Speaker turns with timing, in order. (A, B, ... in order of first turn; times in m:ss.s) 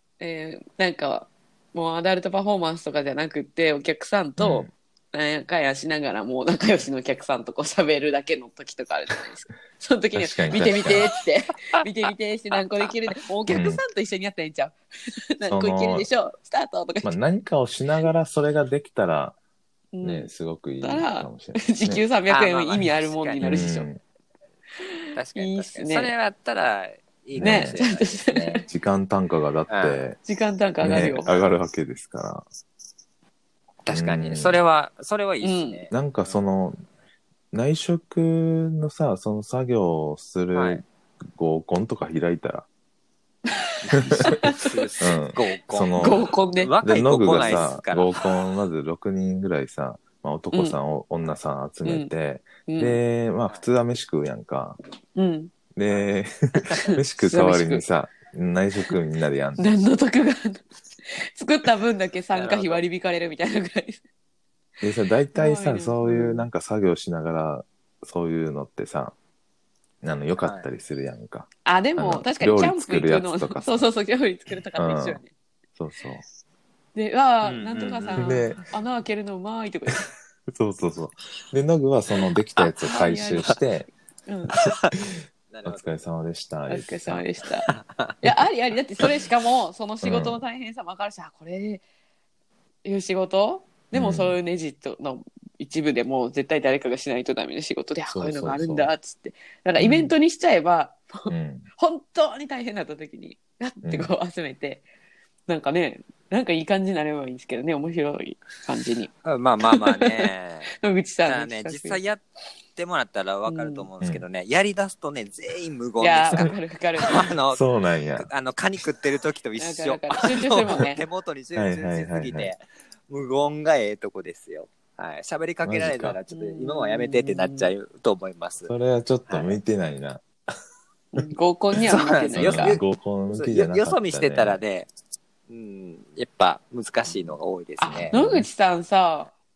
0:00.2-0:14.8 A
0:04.4-0:04.7 B
0:10.1-0:11.1 B
0:13.5-0:13.8 B
0:15.4-0:17.2 A
0:15.5-0:16.1 B
0:17.0-0:19.4 B
0:19.9-0:23.9 A
0:20.0-0:22.0 B
0:22.3-0:23.8 C
0:23.4-0:24.0 B
0:24.8-0:26.1 A
0:25.1-0:28.6 C
0:27.3-0:27.8 B
0:27.4-0:28.6 A
0:28.7-0:30.2 B
0:29.7-0:30.0 C
0:30.2-0:31.3 A
0:30.8-0:32.4 B
0:31.1-0:31.5 C
0:33.8-0:36.4 C
0:33.9-0:34.6 B
0:35.4-0:35.8 A
0:35.9-0:36.8 B
0:37.5-0:42.7 B
0:40.5-0:40.8 C
0:43.6-0:44.9 A
0:43.9-0:48.2 C
0:43.9-0:44.4 B
0:45.0-0:46.3 B
0:46.0-0:46.7 A
0:46.8-0:54.8 B
0:47.3-0:47.6 A
0:50.5-0:50.8 A
0:51.8-0:52.1 A
0:52.7-0:53.0 A
0:55.1-0:55.5 A
0:55.8-0:59.7 B
0:57.2-0:57.8 A
0:59.6-1:04.0 A
1:02.3-1:02.8 C
1:04.8-1:09.2 B
1:05.3-1:06.4 A
1:10.0-1:13.7 B
1:10.4-1:10.7 C
1:11.6-1:15.3 A
1:14.8-1:15.2 B
1:15.8-1:16.2 B
1:16.9-1:20.0 A
1:17.4-1:18.6 C
1:18.2-1:18.6 B
1:20.5-1:23.9 B
1:22.6-1:23.6 A
1:24.3-1:24.6 A
1:24.5-1:24.9 C
1:25.5-1:25.8 C
1:25.6-1:27.2 B
1:26.7-1:27.7 A
1:27.7-1:28.2 C
1:28.2-1:31.8 A
1:30.0-1:30.4 B
1:32.8-1:44.8 A
1:33.9-1:34.3 B
1:38.1-1:38.9 B
1:39.8-1:40.1 B
1:41.3-1:41.7 B
1:43.8-1:44.1 B
1:45.5-1:49.1 A
1:49.2-1:52.2 C
1:49.7-1:52.0 A
1:52.7-1:57.6 C
1:53.5-1:53.9 A
1:56.0-1:57.3 A
1:57.5-1:58.3 B
1:58.2-2:08.7 C
1:59.6-2:01.0 A
2:01.5-2:02.5 B
2:05.6-2:06.2 B
2:06.3-2:07.7 A
2:08.7-2:10.2 B
2:09.3-2:09.6 C
2:11.1-2:12.8 A
2:11.9-2:14.9 C
2:12.3-2:14.6 B
2:15.5-2:18.1 C
2:17.8-2:19.3 A
2:17.9-2:18.5 B